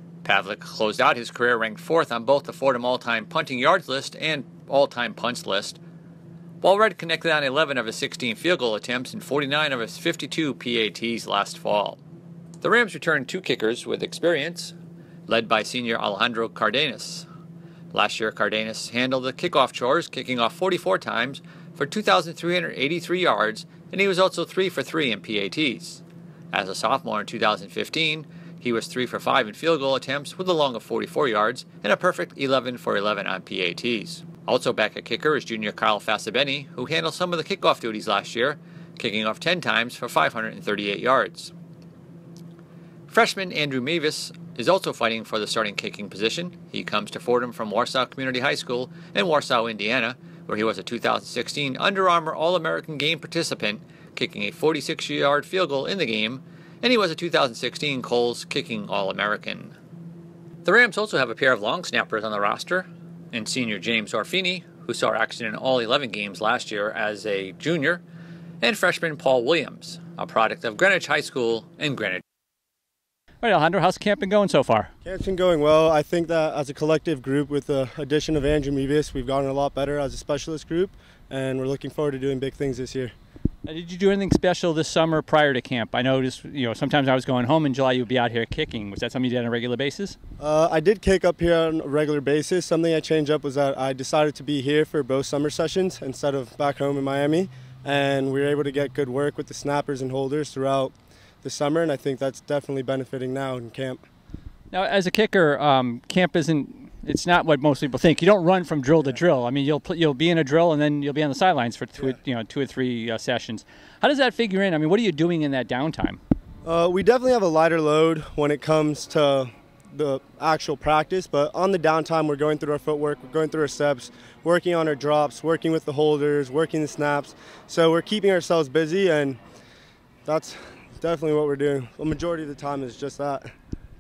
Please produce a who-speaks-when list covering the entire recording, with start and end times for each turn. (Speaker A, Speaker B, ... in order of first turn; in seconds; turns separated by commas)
Speaker A: 0.2-5.8, Speaker A: 6.6-12.0, Speaker A: 12.6-14.8, Speaker A: 15.3-17.3, Speaker A: 17.9-41.5, Speaker A: 43.1-59.8, Speaker A: 60.6-68.0, Speaker A: 68.6-72.2, Speaker A: 73.4-73.8, Speaker B: 73.5-74.9, Speaker C: 75.0-83.1, Speaker B: 83.7-90.2, Speaker C: 90.4-104.0, Speaker B: 104.7-116.2, Speaker C: 116.7-129.4, Speaker C: 130.3-133.5